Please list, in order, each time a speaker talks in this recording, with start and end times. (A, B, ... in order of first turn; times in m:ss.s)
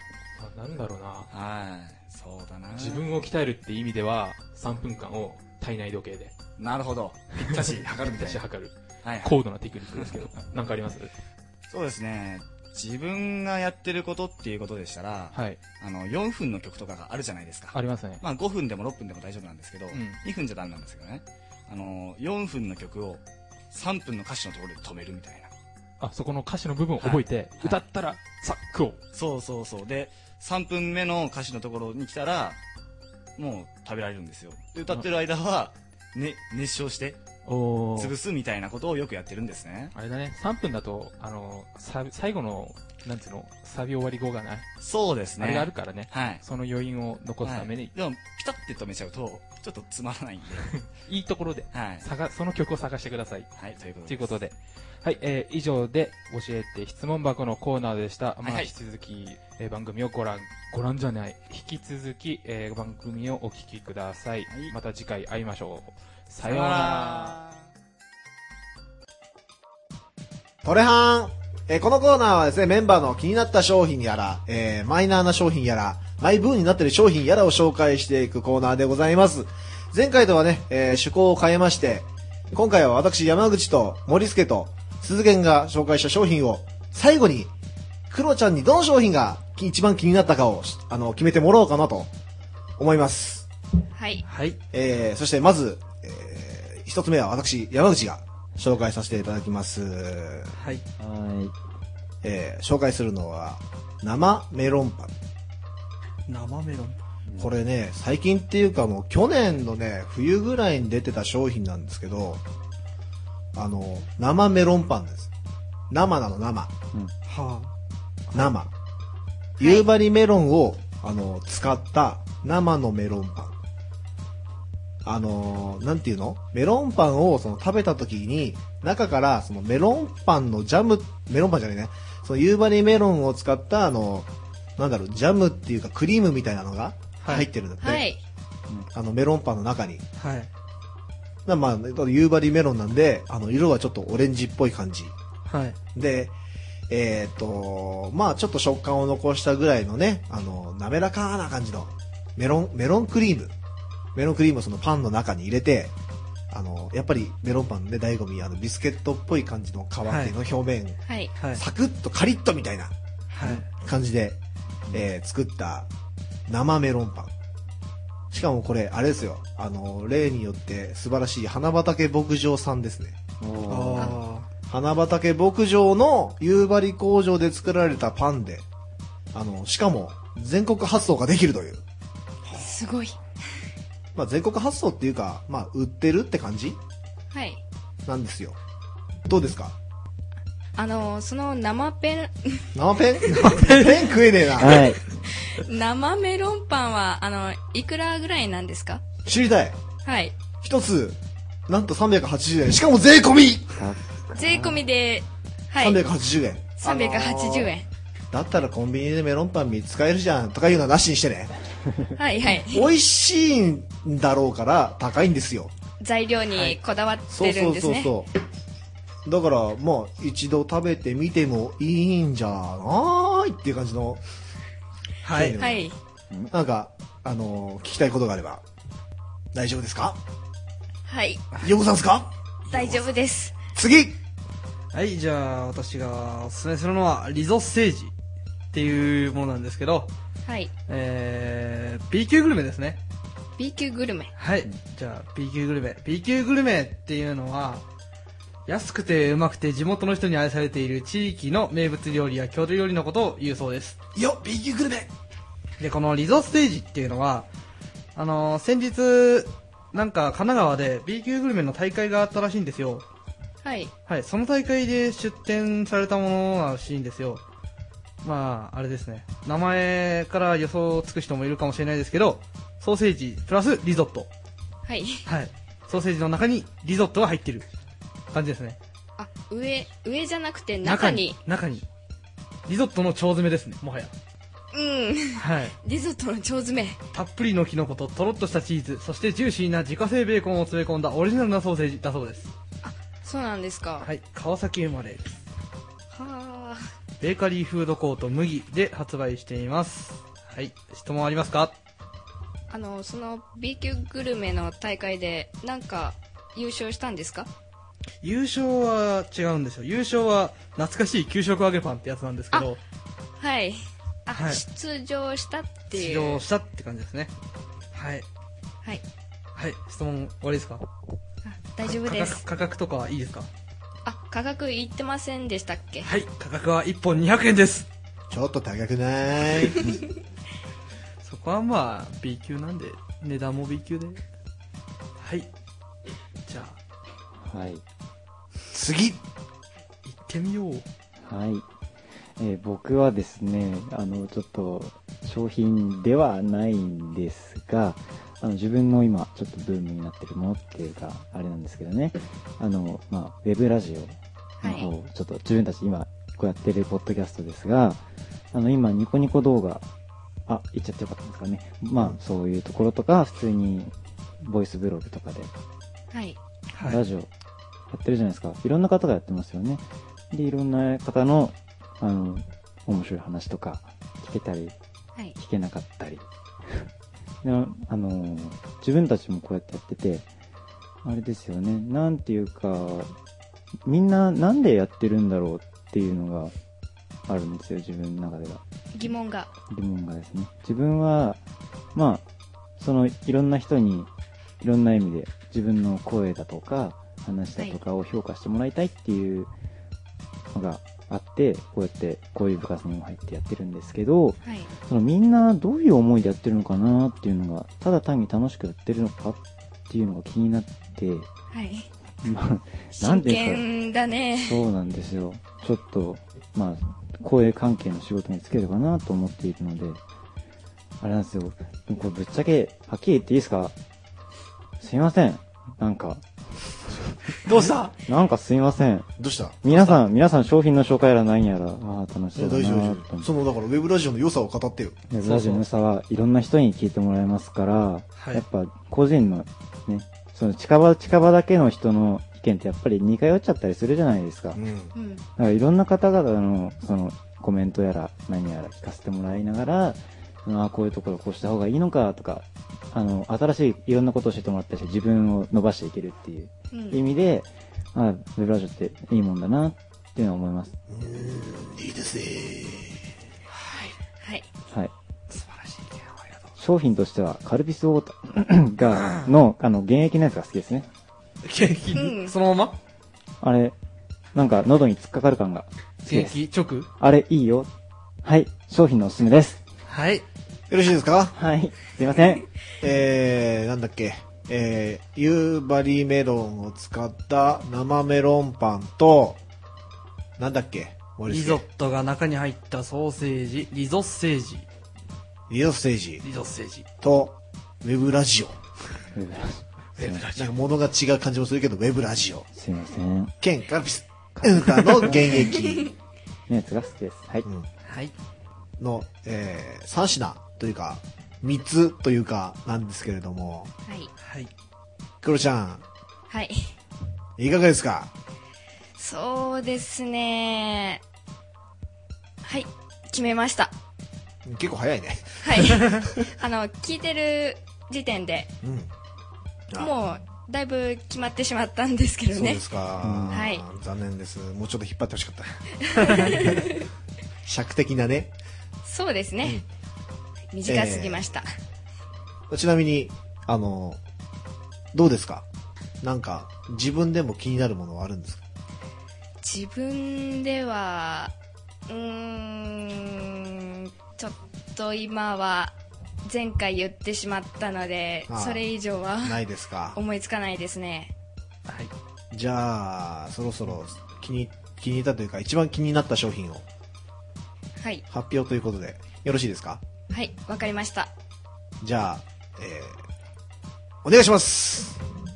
0:00.4-0:01.3 A
0:01.3-0:03.0 B
0:02.7-0:06.4 A
0:06.6-0:08.4 B
0:07.4-0:11.1 A
0:09.0-0:09.4 B
0:09.9-0:10.3 B
0:11.7-0:25.5 B
0:15.3-0:15.6 A
0:17.7-0:18.2 A
0:19.9-0:20.2 A
0:26.0-0:29.0 A
0:27.0-0:27.8 B
0:29.1-0:32.6 B
0:33.4-0:37.2 B
0:37.4-0:38.2 A
0:38.0-0:39.9 B
0:39.9-0:44.7 A
0:44.8-0:46.4 B
0:45.4-0:47.9 A
0:47.4-0:50.7 B
0:50.6-0:53.5 A
0:51.7-0:52.1 B
0:53.6-0:54.3 B
0:54.1-1:07.4 A
0:58.4-0:58.7 B
1:04.5-1:04.7 B
1:06.4-1:07.6 B
1:10.6-1:27.5 C
1:28.1-1:32.1 C
1:32.8-1:33.5 C
1:34.0-1:34.2 D
1:34.2-1:34.6 E
1:34.7-1:40.6 C
1:40.5-1:40.8 E
1:41.0-1:41.5 F
1:42.2-1:45.1 C
1:46.3-1:47.0 E
1:47.4-1:52.4 C
1:53.5-1:55.3 C
1:55.9-1:56.7 C
1:57.3-1:57.7 E
1:58.3-1:58.7 C
1:59.6-1:59.9 D
1:59.6-2:03.6 C
2:05.0-2:18.1 C
2:17.2-2:17.5 E
2:17.8-2:18.2 D
2:18.9-2:20.0 C
2:20.2-2:20.5 E
2:21.5-2:25.2 C
2:25.5-2:25.8 E
2:26.0-2:26.4 C
2:26.9-2:33.5 C
2:34.1-2:35.9 C
2:36.5-2:41.0 C
2:40.1-2:40.3 E
2:41.1-2:41.3 D
2:41.5-2:44.4 C
2:43.3-2:43.6 E
2:44.9-2:45.9 C
2:46.5-2:47.3 C
2:48.3-2:53.2 C
2:53.4-2:54.1 F
2:53.7-2:54.5 E
2:54.7-2:58.6 C
2:59.3-3:01.8 C
3:02.5-3:03.2 D
3:04.1-3:06.8 C
3:07.3-3:07.6 D
3:08.1-3:08.6 C
3:09.3-3:09.8 C
3:10.8-3:12.7 D
3:12.8-3:14.9 C
3:13.3-3:14.1 E
3:14.6-3:15.0 F
3:15.4-3:19.0 D
3:19.2-3:19.8 C
3:20.0-3:20.3 D
3:20.6-3:23.8 C
3:23.8-3:24.8 F
3:24.4-3:26.0 D
3:25.8-3:27.7 C
3:26.8-3:27.9 D
3:28.3-3:31.5 C
3:32.2-3:32.9 D
3:32.6-3:35.7 C
3:36.0-3:38.1 D
3:37.3-3:38.3 C
3:39.2-3:44.2 C
3:45.2-3:45.6 E
3:45.3-3:45.9 C
3:45.6-3:46.0 D
3:46.5-3:48.6 C
3:49.5-3:50.2 C
3:51.1-3:51.5 D
3:51.6-3:52.3 C
3:52.7-3:53.0 E
3:52.7-3:53.6 D
3:53.8-3:54.2 C
3:54.9-3:58.1 E
3:58.7-4:00.1 E
4:00.5-4:00.7 D
4:00.9-4:03.0 E
4:03.6-4:04.3 D
4:04.4-4:07.8 E
4:08.6-4:15.1 E
4:14.2-4:15.0 C
4:15.8-4:17.5 E
4:18.1-4:23.1 E
4:23.6-4:23.9 D
4:24.1-4:27.4 E
4:28.2-4:34.3 E
4:34.9-4:35.3 D
4:35.3-4:37.7 E
4:38.3-4:38.8 E
4:39.2-4:41.4 D
4:40.8-4:41.9 E
4:42.7-4:44.1 E
4:44.7-4:47.0 D
4:45.4-4:45.8 E
4:47.1-4:52.5 E
4:52.8-4:54.1 D
4:54.0-4:55.3 E
4:56.1-4:56.8 D
4:57.2-5:01.8 E
5:02.7-5:07.5 D
5:08.2-5:12.8 E
5:13.4-5:16.4 D
5:14.4-5:14.6 E
5:15.9-5:17.3 E
5:17.9-5:18.3 E
5:19.6-5:20.8 E
5:21.4-5:22.4 D
5:21.8-5:23.5 E
5:24.0-5:26.1 D
5:26.0-5:27.9 E
5:28.3-5:30.0 C
5:31.2-5:34.2 E
5:35.2-5:35.5 E
5:36.4-5:36.8 E
5:37.4-5:37.8 F
5:38.7-5:39.2 C
5:40.1-5:40.9 E
5:41.2-5:41.6 F
5:42.4-5:58.0 F
5:54.6-5:54.9 D
5:58.5-5:59.9 F
6:00.5-6:05.5 F
6:06.1-6:06.4 D
6:06.7-6:07.0 E
6:06.8-6:07.3 F
6:07.9-6:14.8 F
6:15.4-6:16.9 F
6:17.4-6:20.3 F
6:21.0-6:23.1 F
6:23.8-6:26.6 F
6:27.3-6:28.6 F
6:28.9-6:29.5 D
6:29.7-6:31.4 F
6:32.0-6:32.2 F
6:32.8-6:34.1 F
6:34.6-6:39.5 F
6:40.5-6:51.3 F
6:44.4-6:44.7 D
6:51.5-6:51.9 D
6:52.2-6:53.6 F
6:53.0-6:54.6 D
6:54.4-7:00.0 F
7:01.0-7:03.7 F
7:04.8-7:06.3 F
7:06.8-7:07.2 F
7:07.4-7:08.0 E
7:08.0-7:09.1 F
7:09.2-7:09.6 C
7:09.6-7:13.3 F
7:09.7-7:10.0 E
7:12.4-7:15.0 C
7:15.1-7:24.6 F
7:15.2-7:15.6 E
7:18.2-7:18.4 E
7:24.6-7:24.9 C
7:25.0-7:25.2 D
7:25.4-7:40.7 F
7:36.7-7:37.0 D
7:40.9-7:43.0 C
7:43.7-7:44.5 D
7:45.3-7:46.4 E
7:46.6-7:50.9 F
7:49.0-7:49.3 E
7:51.4-7:52.8 E
7:51.9-7:52.4 D
7:53.4-7:53.8 F
7:54.3-7:56.4 F
7:56.1-7:56.9 E
7:57.0-7:57.7 F
7:58.2-7:59.6 F
7:59.9-8:00.3 E
8:00.7-8:01.3 C
8:01.4-8:02.4 F
8:02.8-8:09.4 C
8:10.4-8:11.6 C
8:11.3-8:14.7 E
8:15.5-8:16.2 C
8:16.2-8:16.9 E
8:17.0-8:18.6 C
8:19.1-8:20.3 F
8:20.0-8:20.4 E
8:20.3-8:22.5 C
8:22.5-8:23.3 F
8:23.4-8:25.9 C
8:24.4-8:25.8 F
8:26.5-8:27.5 F
8:27.8-8:28.1 E
8:28.8-8:33.7 C
8:33.9-8:34.1 D
8:34.2-8:34.5 E
8:35.2-8:35.8 C
8:36.3-8:36.7 D
8:37.4-8:38.1 C
8:39.0-8:41.0 D
8:42.4-8:43.7 D
8:44.4-8:46.3 C
8:45.4-8:48.5 D
8:48.6-8:48.9 C
8:49.8-8:52.6 D
8:52.3-8:55.7 C
8:53.0-8:53.4 F
8:53.3-8:53.6 D
8:55.8-8:56.9 D
8:56.0-8:56.3 E
8:56.2-8:56.7 C
8:57.4-8:58.3 C
8:58.8-8:59.6 D
9:00.5-9:01.4 D
9:00.7-9:01.3 C
9:02.5-9:04.0 C
9:04.9-9:05.4 C
9:06.0-9:08.4 C
9:09.4-9:11.3 D
9:11.9-9:19.4 D
9:18.3-9:18.6 C
9:19.2-9:20.0 C
9:20.0-9:21.1 D
9:21.7-9:21.9 E
9:22.3-9:26.6 C
9:27.8-9:28.0 D
9:28.1-9:29.8 C
9:30.1-9:31.1 D
9:31.8-9:33.0 C
9:34.0-9:35.0 C